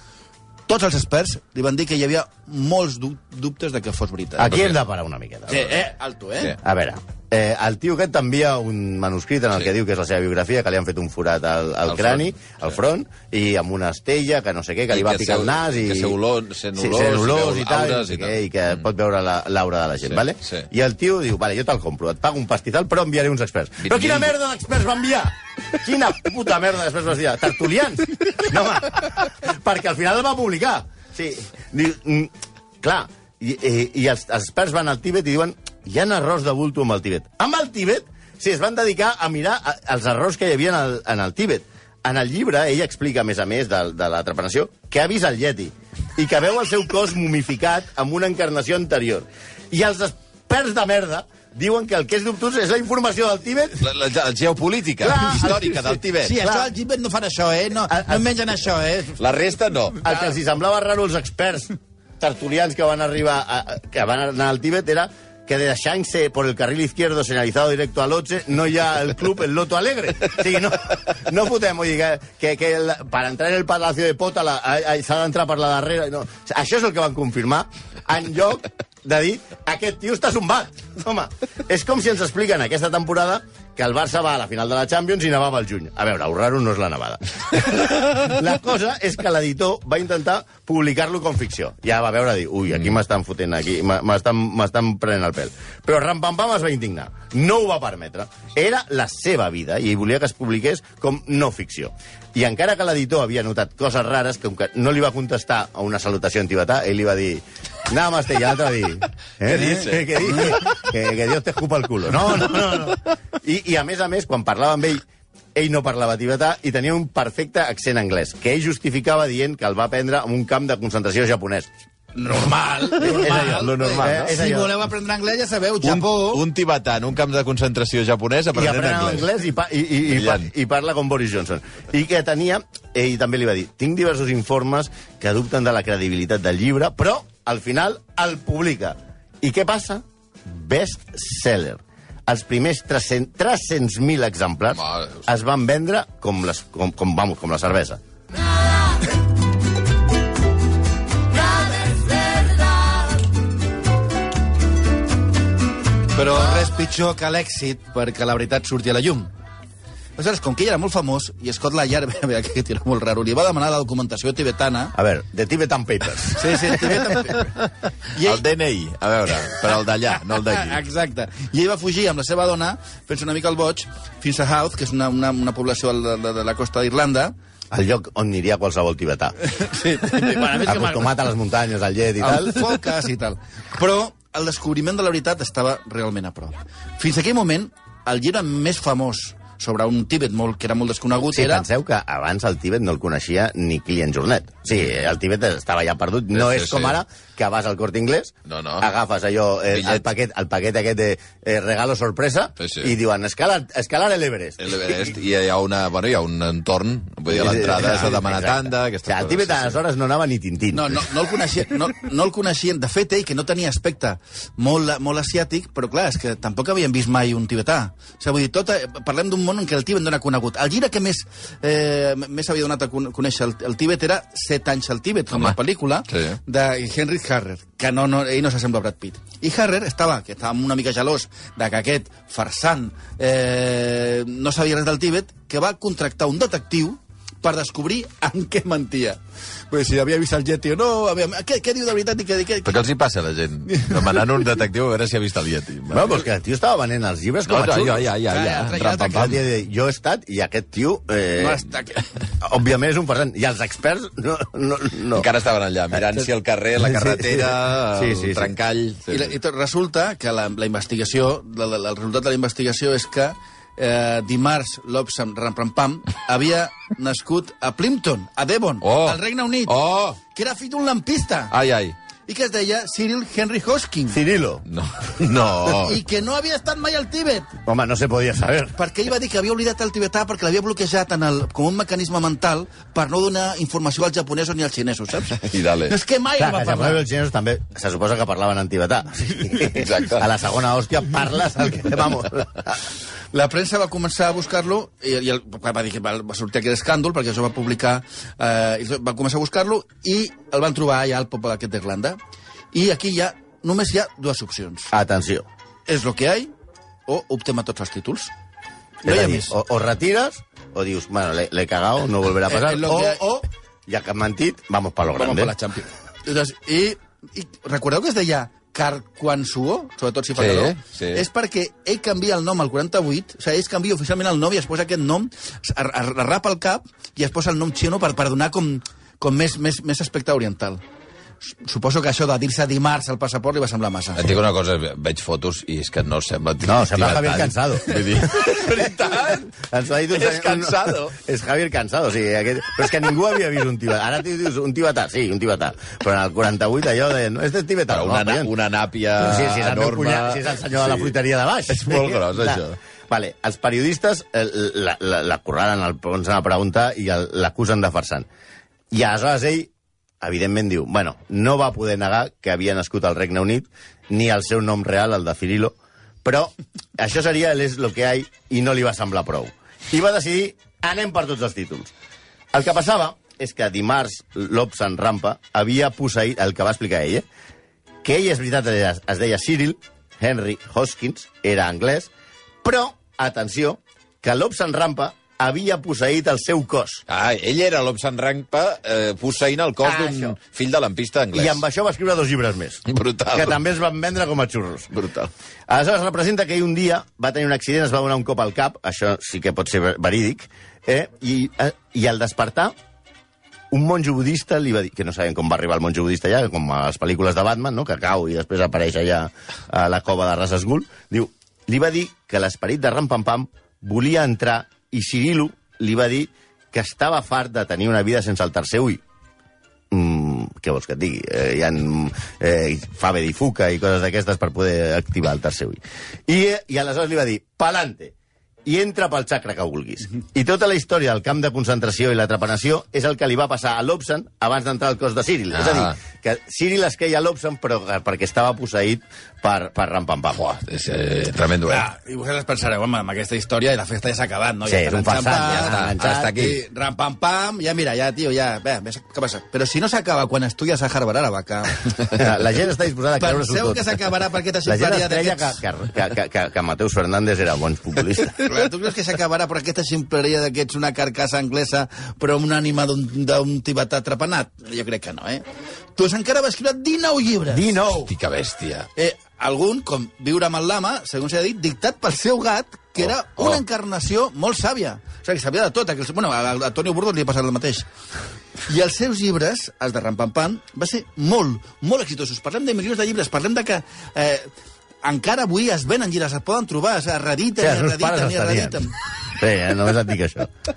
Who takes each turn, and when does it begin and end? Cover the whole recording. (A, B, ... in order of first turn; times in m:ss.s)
0:00.7-0:04.6 A
0:04.4-0:05.8 B
0:04.5-0:04.8 C
0:05.5-0:06.6 A
0:06.6-0:16.2 B
0:11.9-0:12.6 C
0:14.9-0:18.4 C
0:16.8-0:53.8 B
0:20.1-0:20.7 C
0:23.8-0:24.3 C
0:53.8-0:56.4 C
0:55.0-0:55.8 B
0:56.2-0:59.2 A
0:56.4-0:56.7 B
0:57.9-0:58.2 B
0:59.2-1:00.1 C
1:00.0-2:01.7 B
1:49.5-1:50.6 C
2:02.2-2:06.4 A
2:03.0-2:04.7 B
2:03.8-2:04.1 C
2:05.8-2:09.3 C
2:08.5-2:28.0 B
2:10.1-2:10.5 C
2:24.8-2:25.2 C
2:36.1-2:39.3 A
2:40.2-2:45.0 A
2:45.0-2:47.0 B
2:46.4-2:47.6 A
2:48.1-2:48.4 A
2:48.2-2:50.8 C
2:50.2-2:57.3 A
2:57.7-2:59.4 B
2:59.5-3:01.1 A
3:00.6-3:02.7 B
3:02.2-3:11.7 A
3:11.3-3:25.1 B
3:16.3-3:17.0 C
3:18.5-3:18.9 C
3:19.7-3:20.0 C
3:22.6-3:23.0 C
3:24.6-3:29.8 C
3:27.3-3:31.1 B
3:27.7-3:28.1 A
3:30.7-3:59.2 A
3:46.1-3:46.4 C
3:59.7-4:02.8 A
4:02.6-4:06.2 C
4:03.7-4:04.0 A
4:05.9-4:08.1 B
4:07.5-4:09.4 C
4:08.3-4:09.3 A
4:09.1-4:11.7 B
4:11.4-4:12.0 A
4:12.4-4:15.3 B
4:15.2-4:19.4 C
4:16.9-4:18.5 B
4:19.1-4:29.8 A
4:28.8-4:30.2 C
4:30.3-4:31.6 A
4:31.5-4:32.0 C
4:32.3-4:34.2 A
4:34.1-4:34.6 B
4:34.7-4:36.0 C
4:35.8-4:37.5 A
4:37.7-4:38.8 B
4:38.8-4:47.0 A
4:45.5-4:46.0 C
4:46.4-4:52.8 B
4:49.7-4:50.3 C
4:53.3-5:02.2 A
5:02.7-5:04.9 A
5:04.9-5:05.5 B
5:05.9-5:06.5 A
5:07.1-5:08.3 A
5:09.0-5:09.6 A
5:09.0-5:13.2 B
5:12.5-5:13.5 A
5:13.9-5:15.5 B
5:15.1-5:30.8 A
5:20.4-5:21.2 C
5:31.4-5:34.3 A
5:34.2-5:39.5 C
5:36.6-5:48.5 B
5:40.1-5:41.2 C
5:47.9-5:51.1 C
5:49.2-5:58.3 B
5:51.7-5:52.8 C
5:58.9-6:11.9 B
6:12.5-6:17.3 B
6:18.0-6:22.1 B
6:22.6-6:27.0 B
6:27.1-6:31.6 C
6:29.8-6:30.4 B
6:31.3-6:35.0 B
6:32.9-6:33.6 C
6:34.9-6:35.3 C
6:35.7-6:42.7 B
6:43.7-6:59.0 B
6:59.9-7:08.1 B
7:08.6-7:20.4 B
7:15.5-7:16.0 C
7:20.4-7:21.9 C
7:21.7-7:31.8 A
7:24.7-7:26.4 B
7:25.5-7:26.6 C
7:32.1-7:34.0 B
7:33.2-7:35.6 A
7:34.7-7:38.4 B
7:38.4-7:45.4 A
7:46.0-7:47.7 A
7:47.5-7:48.1 B
7:48.1-7:48.9 C
7:49.0-7:57.9 A
7:58.7-8:04.5 A
8:05.0-8:08.9 A
8:07.6-8:10.5 B